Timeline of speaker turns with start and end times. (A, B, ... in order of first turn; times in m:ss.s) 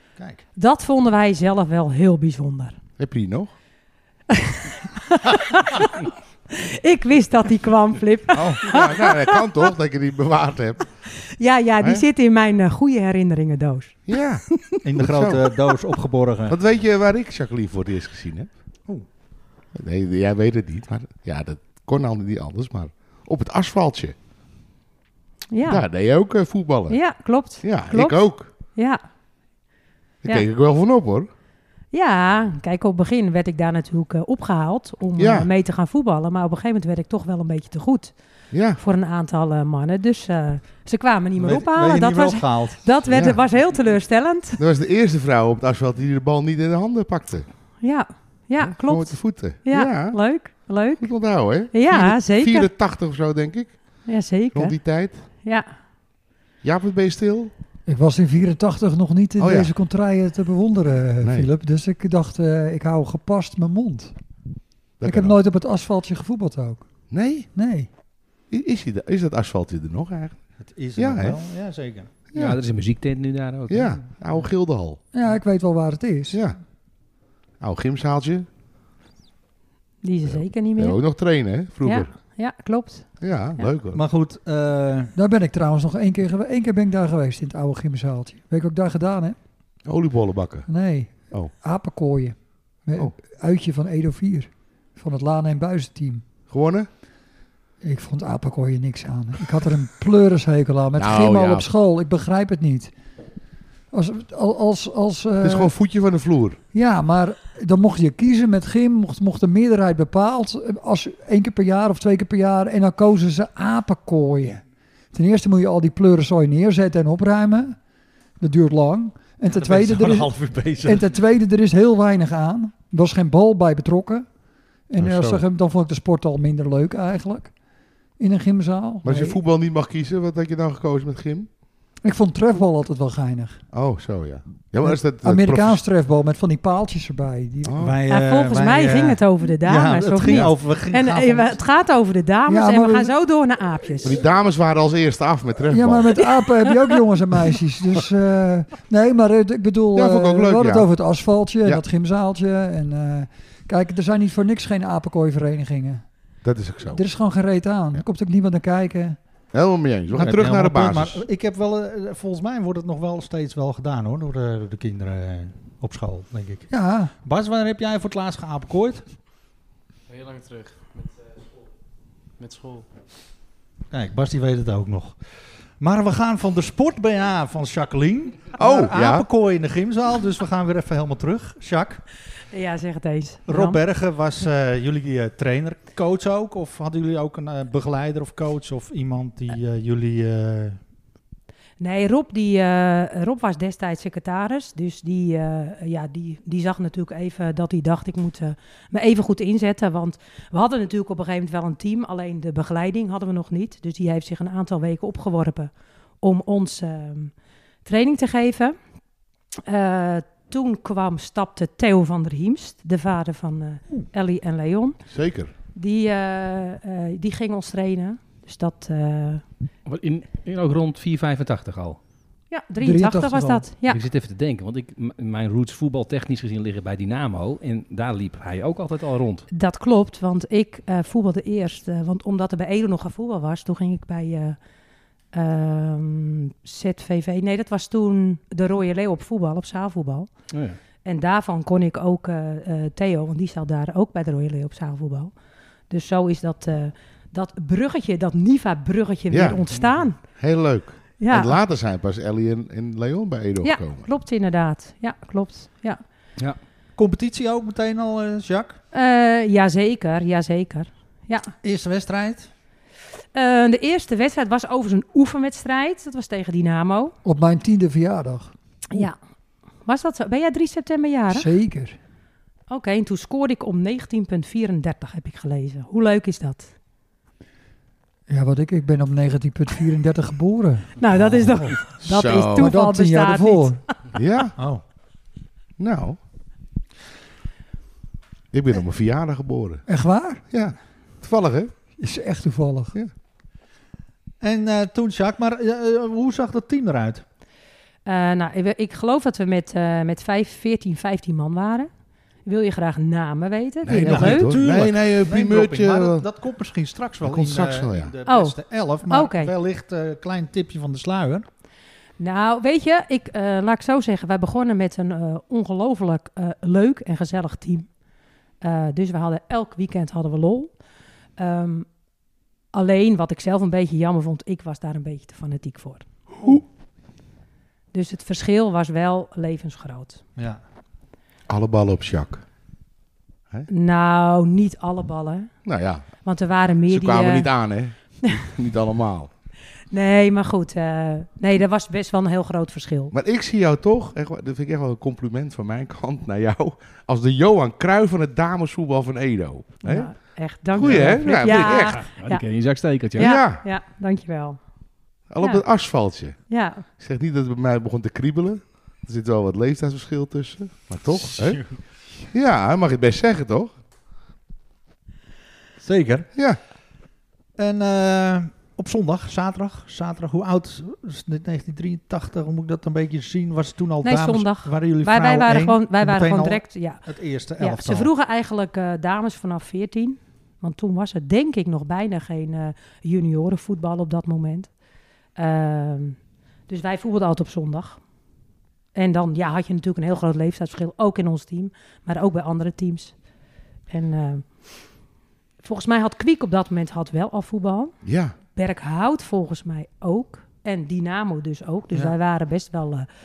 0:00.2-0:00.4 A
0:00.6-0:02.8 B
0:03.0-0:03.5 C
0:04.4-0:06.0 B
0:06.5-0:09.4 B
0:08.3-0:11.0 C
0:11.4-0:14.6 B
0:14.1-0:14.4 C
0:14.8-0:16.6 A
0:15.0-0:15.5 C
0:16.5-0:18.6 C
0:19.7-0:24.2 C
0:25.5-0:25.8 B
0:25.6-0:28.5 C
0:26.9-0:29.0 B
0:30.2-0:31.3 C
0:31.9-0:38.2 B
0:35.2-0:35.5 C
0:38.5-0:38.8 C
0:38.7-0:44.6 B
0:41.4-0:43.1 A
0:43.1-0:43.4 C
0:44.6-0:47.5 C
0:47.8-0:52.7 B
0:48.6-0:50.2 C
0:51.0-0:55.2 C
0:54.0-0:55.7 B
0:56.6-0:57.5 C
0:57.9-1:04.1 D
0:59.4-0:59.7 C
1:01.2-1:01.5 C
1:05.0-1:05.3 C
1:05.0-1:07.9 D
1:07.1-1:07.5 C
1:08.5-1:11.4 C
1:10.6-1:12.1 A
1:12.3-1:12.6 C
1:12.3-1:14.2 E
1:13.7-1:15.0 C
1:15.1-1:16.4 D
1:16.3-1:16.6 C
1:17.6-1:18.5 C
1:20.0-1:21.0 B
1:20.3-1:22.1 C
1:21.8-1:23.7 B
1:23.2-1:24.0 C
1:23.9-1:25.1 A
1:25.2-1:29.4 D
1:29.8-1:30.7 C
1:30.7-1:36.2 D
1:36.5-1:36.9 C
1:37.8-1:42.9 D
1:40.9-1:41.7 C
1:43.9-1:45.7 D
1:45.4-1:46.6 C
1:46.7-1:57.8 D
1:58.4-2:04.3 D
1:59.5-2:01.1 A
2:04.9-2:07.5 D
2:05.0-2:05.4 C
2:08.2-2:09.4 D
2:09.0-2:11.5 C
2:12.0-2:13.6 D
2:13.7-2:15.8 C
2:14.8-2:17.9 D
2:17.6-2:18.0 C
2:17.8-2:21.6 A
2:18.1-2:24.2 B
2:22.5-2:23.1 D
2:24.0-2:26.2 C
2:25.7-2:36.1 D
2:29.9-2:30.9 C
2:36.4-2:37.0 C
2:36.9-2:39.2 D
2:39.5-2:41.2 C
2:40.1-2:46.7 A
2:46.7-2:47.1 D
2:47.2-2:49.0 A
2:50.1-2:51.6 F
2:52.4-2:52.9 F
2:53.9-2:55.2 A
2:55.8-3:02.0 A
2:58.6-2:59.3 C
3:02.5-3:03.8 B
3:03.5-3:10.8 A
3:11.8-3:25.7 B
3:26.2-3:27.3 B
3:27.8-3:28.8 B
3:29.6-3:35.0 B
3:35.1-3:35.5 C
3:35.7-3:39.4 B
3:39.8-3:42.0 E
3:42.5-3:44.0 B
3:42.8-3:43.6 D
3:43.9-3:49.4 E
3:49.5-3:54.6 B
3:55.3-4:00.3 B
4:00.5-4:00.8 E
4:01.0-4:05.3 B
4:05.9-4:10.4 B
4:09.3-4:09.6 C
4:10.2-4:14.1 C
4:11.2-4:11.6 B
4:13.6-4:16.0 B
4:17.0-4:18.8 A
4:18.9-4:21.5 B
4:21.6-4:22.5 A
4:23.3-4:27.1 B
4:27.2-4:29.1 D
4:28.9-4:29.2 B
4:29.8-4:31.5 B
4:31.3-4:32.0 D
4:32.7-4:36.7 B
4:38.3-4:40.9 D
4:41.0-4:43.8 B
4:41.1-4:41.9 A
4:42.0-4:42.7 C
4:42.4-4:43.8 D
4:44.1-4:44.6 C
4:44.6-4:44.8 A
4:45.8-4:46.2 C
4:48.5-4:49.8 C
4:49.8-4:50.4 D
4:50.5-4:51.7 C
4:52.0-4:53.0 D
4:54.4-4:57.2 A
4:58.0-5:01.9 B
5:02.4-5:04.6 B
5:03.8-5:06.2 C
5:03.9-5:11.4 A
5:07.2-5:08.1 C
5:08.2-5:09.5 B
5:12.2-5:17.9 B
5:18.6-5:20.7 B
5:21.4-5:21.9 B
5:22.7-5:26.0 B
5:27.9-5:30.2 B
5:31.5-5:32.4 C
5:33.7-5:35.5 B
5:35.6-5:36.1 C
5:36.2-5:37.5 B
5:36.9-5:39.3 C
5:39.9-5:43.1 B
5:43.1-5:52.0 C
5:49.8-5:52.5 B
5:50.8-5:53.3 E
5:53.2-5:54.6 B
5:53.2-5:53.6 C
5:55.3-6:01.6 C
5:56.4-5:56.8 B
6:01.1-6:01.8 A
6:02.2-6:03.7 C
6:05.8-6:06.3 A
6:07.6-6:18.1 A
6:14.0-6:17.0 B
6:17.6-6:24.7 B
6:25.4-6:28.0 B
6:28.9-6:33.2 B
6:33.9-6:35.0 B
6:35.6-6:43.1 B
6:38.0-6:38.3 C